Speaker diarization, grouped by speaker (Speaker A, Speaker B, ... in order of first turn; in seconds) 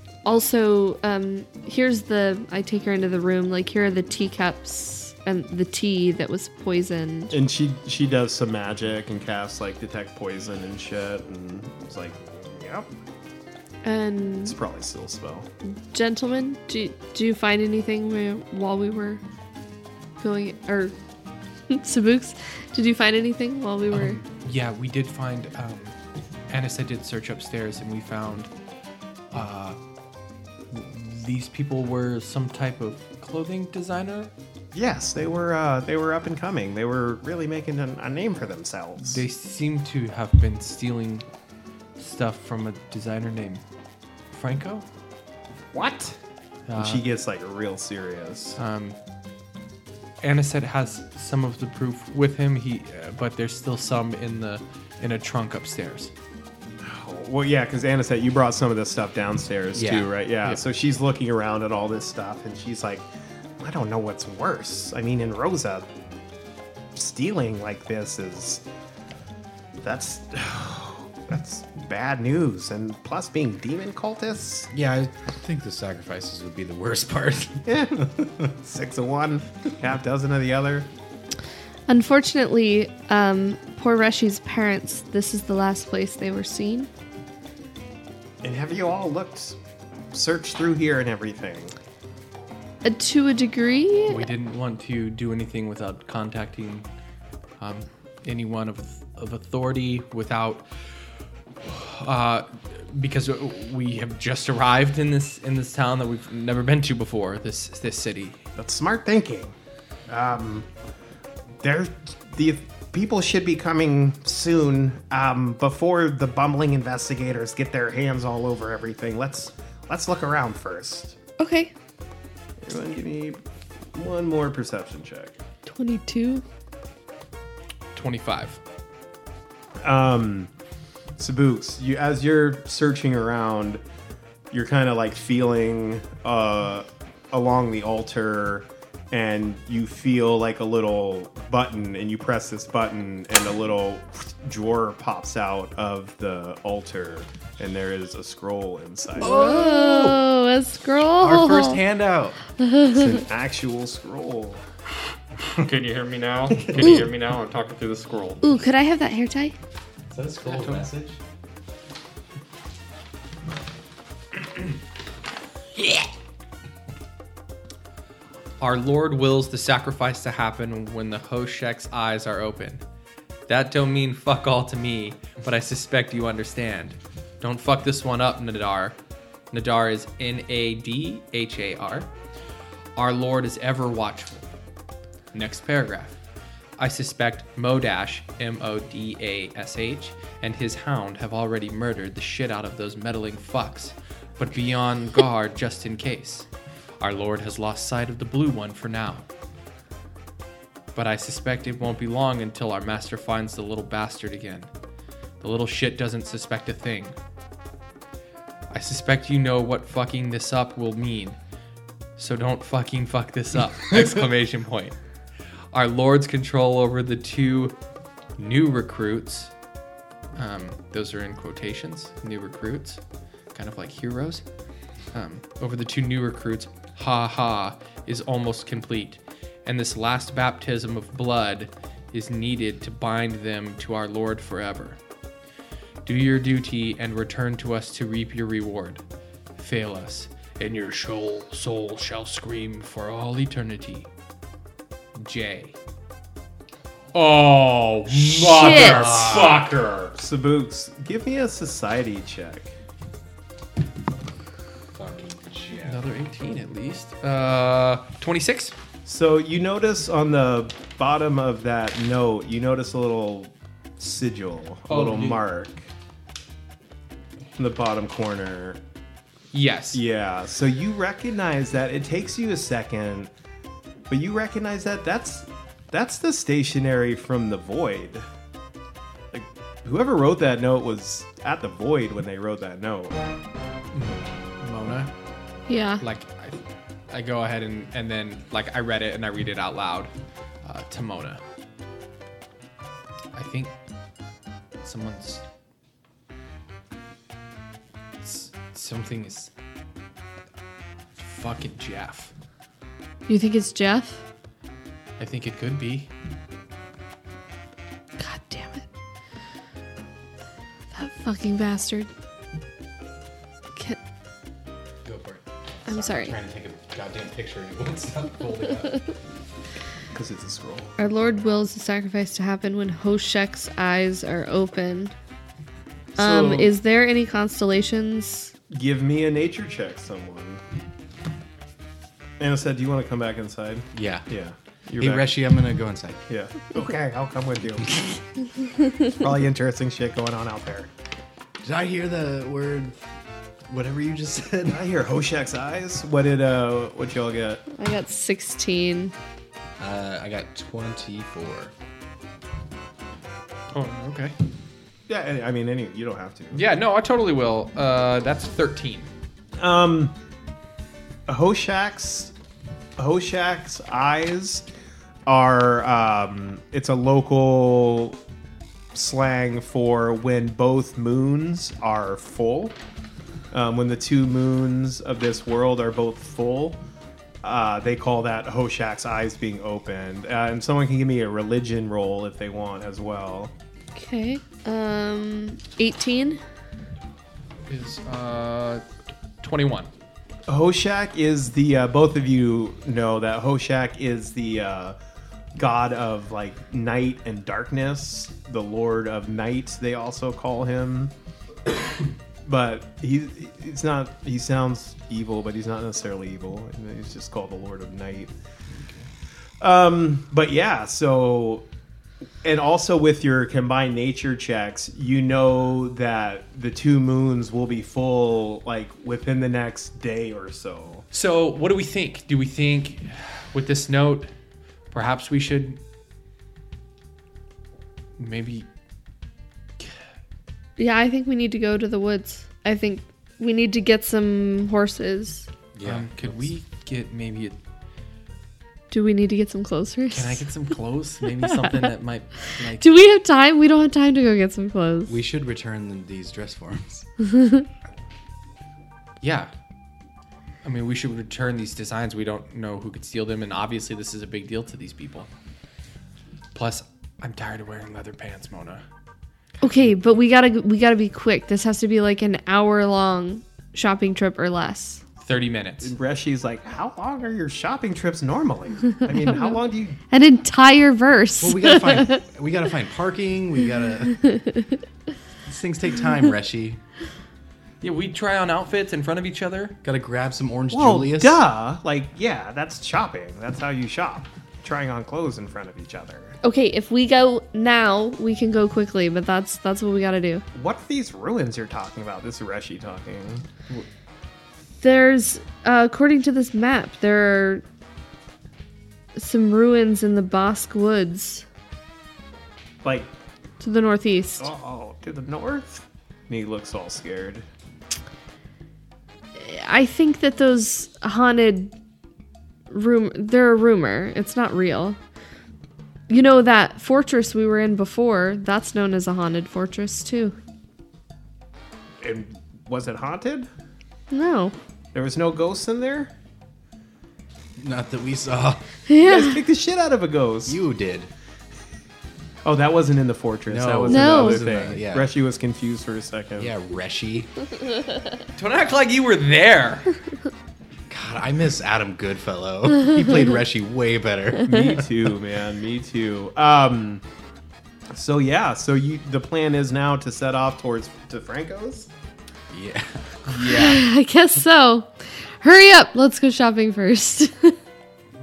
Speaker A: 0.2-7.3, 13.8-14.6, 15.9-19.2, 20.2-20.9, 21.7-24.2, 81.9-86.9, 92.8-94.3, 121.4-121.7, 125.7-126.4, 149.2-151.8, 152.6-153.2, 158.4-159.5, 248.5-249.1, 285.7-286.0, 303.3-304.2, 308.2-308.9, 310.9-312.1, 315.9-316.3, 321.0-325.1, 326.2-328.5, 347.7-349.1, 383.9-386.4, 430.8-435.5, 438.9-440.4, 442.8-445.1, 447.3-447.6, 459.6-465.0, 469.1-469.6, 470.1-472.2, 474.2-474.7, 486.4-490.4, 494.8-497.6, 499.1-501.4, 503.6-504.5, 509.4-511.7, 512.7-515.0, 516.1-520.4, 524.1-524.5, 528.9-529.4, 533.9-534.4, 553.4-557.6
Speaker B: 7.3-12.9, 14.4-15.5, 34.7-39.2, 45.7-46.2, 46.8-48.6, 56.8-63.1, 63.6-65.9, 66.9-68.6, 69.8-74.7, 77.7-80.9, 88.4-89.6, 90.1-91.8, 108.6-109.5, 110.1-110.7, 111.6-121.2, 122.6-123.4, 123.9-125.3, 129.8-130.5, 131.2-133.8, 134.5-149.4, 152.9-154.6, 249.1-252.7, 259.0-265.9, 267.6-268.8, 269.9-273.3, 274.1-278.2, 279.3-283.2, 320.1-320.9, 326.1-326.7, 328.7-330.6, 332.4-335.3, 336.3-338.0, 339.0-340.9, 344.7-347.6, 355.1-356.6, 359.6-360.1, 361.3-362.3, 363.0-364.6, 365.3-368.2, 368.9-372.8, 373.5-376.8, 377.4-383.5, 390.5-394.9, 395.6-401.1, 402.4-408.3, 409.6-411.6, 412.4-421.0, 465.8-470.0, 480.7-486.4, 490.5-493.5, 502.8-503.1, 504.4-507.4, 522.0-523.5, 524.9-526.1, 529.0-530.6, 532.4-536.5, 544.4-547.0, 547.9-551.9
Speaker C: 23.9-25.9, 26.5-28.5, 29.3-29.8, 30.7-34.3, 39.0-41.2, 42.0-43.6, 44.3-44.9, 46.7-47.0, 48.6-49.0, 50.2-56.1, 94.1-96.9, 97.6-100.7, 101.6-108.4, 127.9-128.6, 168.6-172.8, 173.5-178.9, 179.5-182.1, 182.9-184.5, 185.3-186.2, 186.8-196.5, 197.0-199.2, 200.9-204.7, 205.4-207.2, 208.7-211.4, 212.2-214.9, 215.7-217.8, 218.4-219.5, 220.3-223.0, 223.5-224.4, 225.1-235.0, 236.0-239.0, 239.6-244.1, 245.2-245.8, 247.1-250.1, 255.8-258.7, 264.9-265.4, 269.5-270.0, 283.9-285.1, 286.0-290.1, 290.6-291.4, 293.3-293.7, 294.8-295.4, 298.2-299.5, 301.2-302.3, 305.2-306.1, 353.7-354.3, 356.5-359.1, 387.7-388.8, 389.4-389.9, 421.1-424.3, 424.9-425.8, 428.2-428.7, 435.8-437.6, 440.1-442.9, 449.2-449.5, 450.6-455.3, 456.5-458.8, 465.2-465.9, 477.8-479.8, 538.4-539.9, 553.2-553.8
Speaker D: 59.7-60.1, 74.7-78.3, 149.2-150.3, 151.2-152.4, 160.1-161.2, 248.1-249.8, 254.9-256.0, 315.0-319.0, 333.9-334.3, 335.0-336.2, 341.6-343.0, 343.7-344.8, 349.8-351.7, 435.7-436.5, 445.1-447.1, 471.4-474.2, 475.4-476.8, 479.8-481.4, 527.6-528.6, 530.5-531.1, 533.5-535.1, 536.4-537.3, 540.9-544.9, 552.5-553.3
Speaker E: 155.6-158.4